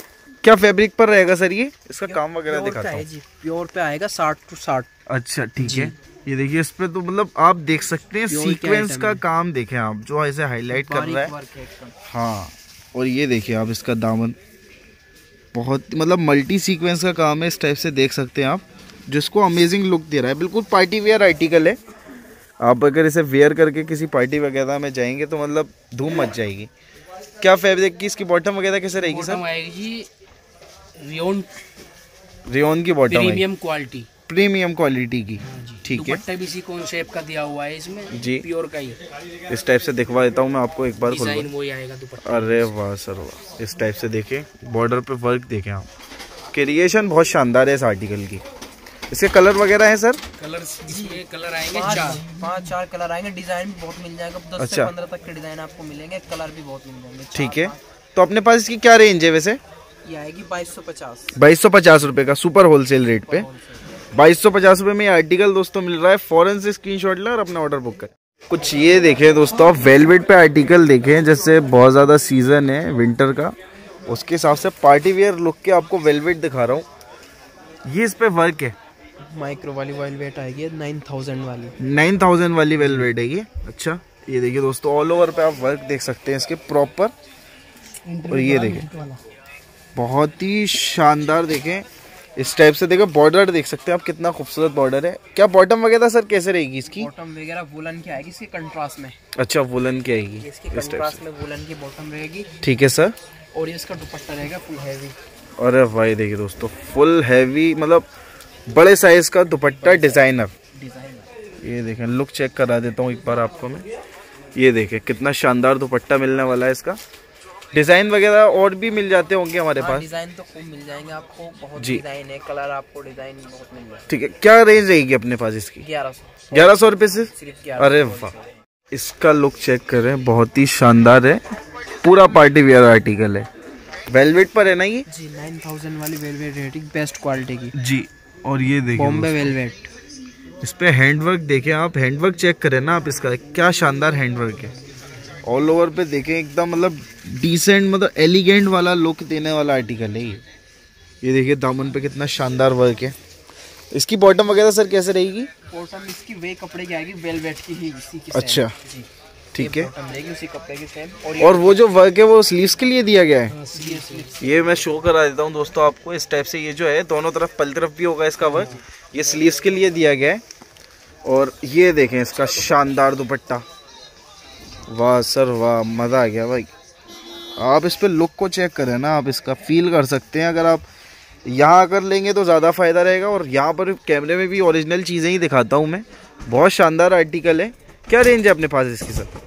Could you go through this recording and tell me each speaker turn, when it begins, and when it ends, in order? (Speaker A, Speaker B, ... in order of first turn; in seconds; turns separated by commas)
Speaker A: 0.4-3.0, Speaker B: 2.0-4.9, Speaker C: 3.4-3.9, Speaker A: 5.1-11.3, Speaker B: 5.6-5.9, Speaker B: 8.3-9.2, Speaker B: 10.7-11.9, Speaker C: 11.5-11.9, Speaker A: 12.1-14.4, Speaker A: 15.5-21.8, Speaker A: 22.6-26.7, Speaker A: 27.4-29.4, Speaker C: 29.0-30.1, Speaker C: 31.0-31.5, Speaker A: 32.5-33.5, Speaker C: 33.1-34.1, Speaker A: 34.3-36.2, Speaker C: 35.4-39.0, Speaker A: 38.1-38.5, Speaker A: 39.5-41.5, Speaker C: 41.0-42.7, Speaker A: 42.2-45.9, Speaker A: 46.5-48.4, Speaker A: 49.1-50.2, Speaker C: 50.4-52.4, Speaker B: 50.9-57.8, Speaker A: 54.6-54.9, Speaker A: 57.3-59.6, Speaker B: 60.0-61.3, Speaker A: 61.4-63.5, Speaker B: 63.0-63.8, Speaker A: 64.2-73.5, Speaker A: 74.1-76.9, Speaker A: 77.9-78.8, Speaker B: 79.3-81.8, Speaker A: 81.8-87.1, Speaker A: 88.2-89.0, Speaker A: 90.0-97.1, Speaker B: 96.9-99.2, Speaker A: 99.4-101.2, Speaker B: 100.4-102.5, Speaker A: 102.6-103.2, Speaker B: 103.5-105.2, Speaker A: 105.6-108.1, Speaker A: 108.7-110.5, Speaker B: 109.8-110.3, Speaker B: 110.8-111.3, Speaker A: 111.6-113.9, Speaker A: 114.6-117.0, Speaker A: 117.7-120.1, Speaker B: 119.8-124.0, Speaker C: 120.2-120.7, Speaker A: 121.8-122.0, Speaker C: 122.5-123.5, Speaker A: 124.1-125.8, Speaker B: 125.8-128.5, Speaker A: 126.5-128.3, Speaker A: 128.9-131.4, Speaker A: 132.0-133.5, Speaker A: 134.1-135.1, Speaker B: 135.1-137.7, Speaker A: 137.7-139.5, Speaker B: 139.0-139.8, Speaker A: 140.6-144.7, Speaker A: 145.4-150.4, Speaker A: 151.2-153.2, Speaker A: 153.9-155.5, Speaker B: 155.7-161.9, Speaker A: 158.3-158.7, Speaker A: 159.6-159.9, Speaker A: 161.4-163.6, Speaker C: 163.5-164.4, Speaker B: 163.7-164.9, Speaker A: 164.4-170.4, Speaker B: 168.5-170.0, Speaker A: 171.2-173.6, Speaker A: 174.9-176.7, Speaker A: 177.6-180.9, Speaker A: 181.5-189.3